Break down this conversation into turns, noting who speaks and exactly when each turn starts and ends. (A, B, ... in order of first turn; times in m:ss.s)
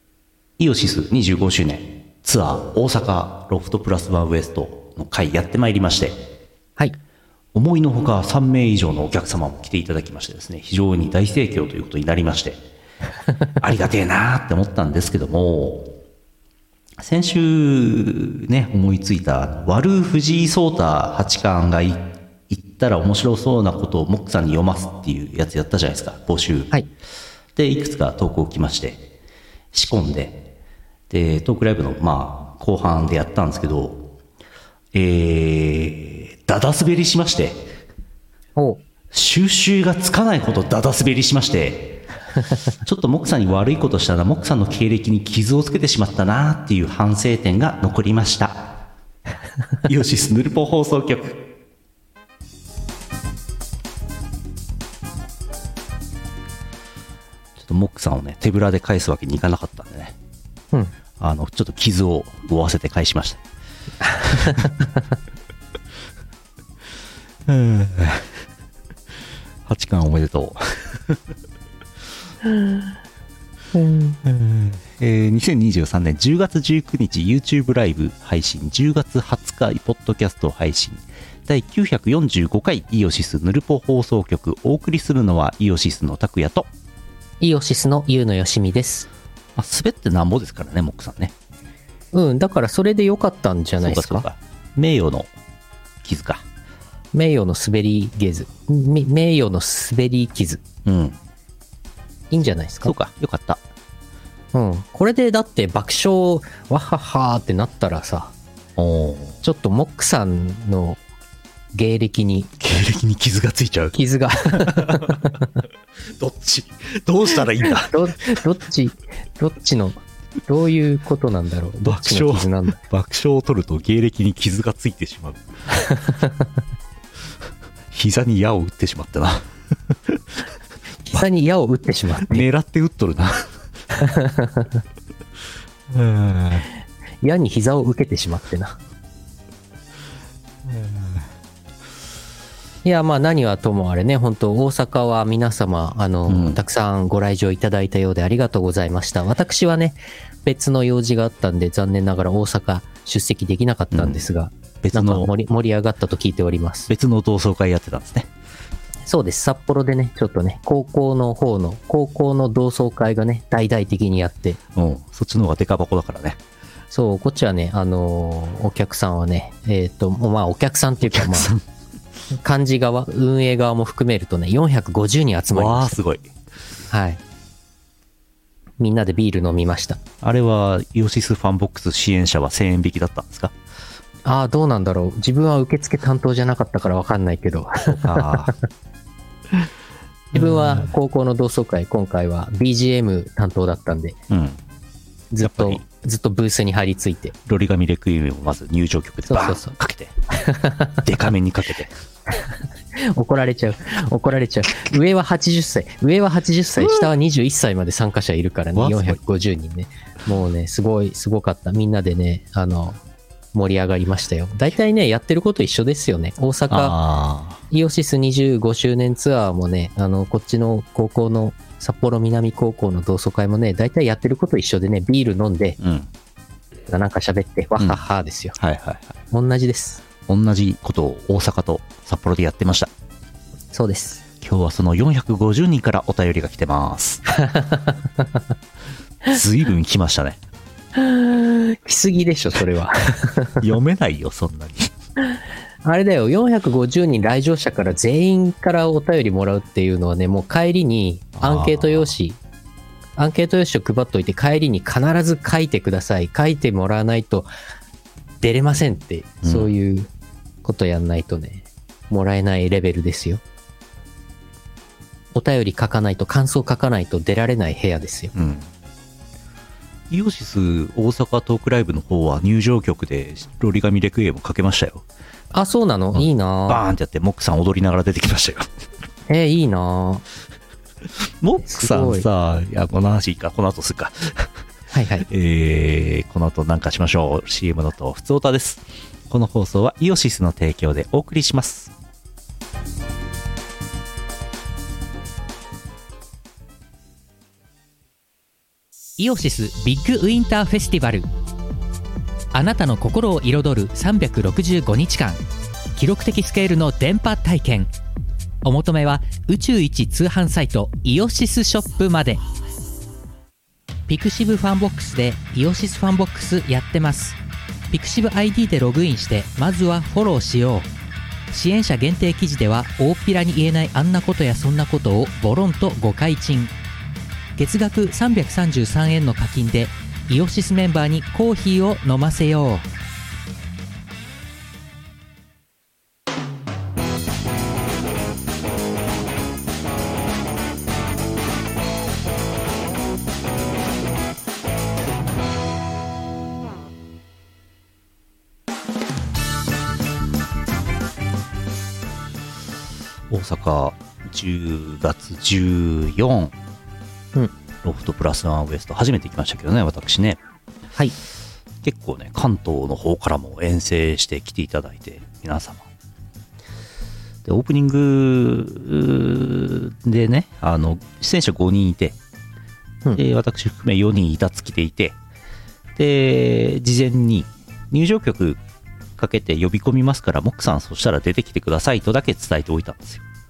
0:00.6-0:06.3 A
0:07.5-0:12.6 A
0:13.6-0:15.9 A
0:17.0-0:26.7 A
0:27.6-0:29.0 A
0:29.7-0:30.4 A
0:31.1-0:34.1 A
0:34.9-0:37.7 A
0:38.6-0:38.8 B
0:39.1-0:42.0 A
0:42.8-0:48.8 A
0:49.8-0:51.5 A
0:57.6-1:00.2 A
1:01.2-1:03.4 A
1:04.2-1:04.7 A
1:07.5-1:08.4 A
1:09.6-1:11.2 A
1:13.7-1:14.2 B
1:14.2-1:26.7 A
1:27.4-1:29.1 B
1:29.6-1:31.3 A
1:32.1-1:34.2 B
1:33.8-1:35.3 A
1:36.0-1:36.4 A
1:37.1-1:40.6 B
1:40.8-1:41.2 A
1:42.3-1:42.9 B
1:42.8-1:43.6 A
1:44.5-1:48.3 B
1:48.8-1:49.4 A
1:49.4-1:51.0 B
1:51.7-1:52.6 B
1:52.6-1:55.3 A
1:53.9-1:55.5 B
1:56.0-1:58.3 A
1:57.6-2:02.8 B
2:01.8-2:05.4 A
2:05.7-2:06.4 B
2:07.9-2:10.2 A
2:11.1-2:12.5 B
2:12.3-2:13.5 A
2:13.9-2:14.8 B
2:15.9-2:16.7 A
2:17.2-2:18.8 B
2:20.6-2:21.3 A
2:22.8-2:36.9 B
2:26.3-2:26.6 A
2:33.9-2:34.3 A
2:34.8-2:35.3 A
2:36.9-2:38.3 A
2:39.0-2:44.6 B
2:44.7-2:46.4 A
2:46.9-2:51.5 B
2:51.0-2:51.6 A
2:52.3-2:56.0 B
2:55.5-2:56.3 A
2:56.9-2:57.2 B
2:58.8-3:00.0 B
3:00.2-3:03.5 A
3:04.2-3:08.4 B
3:07.8-3:08.5 A
3:10.3-3:10.9 A
3:10.3-3:14.2 B
3:14.3-3:14.6 A
3:15.3-3:17.3 B
3:15.4-3:15.8 A
3:17.4-3:20.2 A
3:19.3-3:19.7 B
3:20.3-3:21.0 B
3:21.0-3:21.9 A
3:22.3-3:33.0 B
3:26.8-3:27.0 A
3:28.8-3:29.2 A
3:33.5-3:37.0 B
3:36.7-3:37.6 A
3:37.7-3:45.8 B
3:45.8-3:46.1 A
3:46.9-3:48.6 B
3:48.6-3:49.1 A
3:49.3-3:50.0 B
3:50.3-3:52.9 A
3:53.7-3:54.2 B
3:54.4-3:57.2 A
3:57.3-3:58.3 B
3:59.2-4:00.4 A
4:01.0-4:03.6 B
4:03.6-4:04.9 A
4:05.4-4:12.4 B
4:11.4-4:12.1 A
4:13.2-4:17.5 B
4:18.4-4:20.1 B
4:19.4-4:19.7 A
4:20.6-4:23.4 B
4:25.3-4:28.3 B
4:28.3-4:28.7 A
4:30.1-4:35.0 A
4:35.5-4:36.8 B
4:36.1-4:38.7 A
4:39.3-4:40.2 B
4:41.4-4:44.5 A
4:41.6-4:42.2 B
4:44.9-4:45.2 B
4:45.3-4:51.9 A
4:59.2-5:01.3 C
5:02.5-5:05.4 C
5:06.0-5:07.9 C
5:08.6-5:12.4 C
5:14.1-5:17.4 C
5:17.9-5:20.9 C
5:21.5-5:26.7 C
5:27.6-5:32.8 C
5:53.3-5:56.5 A
5:57.8-6:00.4 A
6:01.8-6:05.8 A
6:07.4-6:12.2 A
6:13.1-6:15.2 A
6:16.0-6:18.6 A
6:19.2-6:23.2 A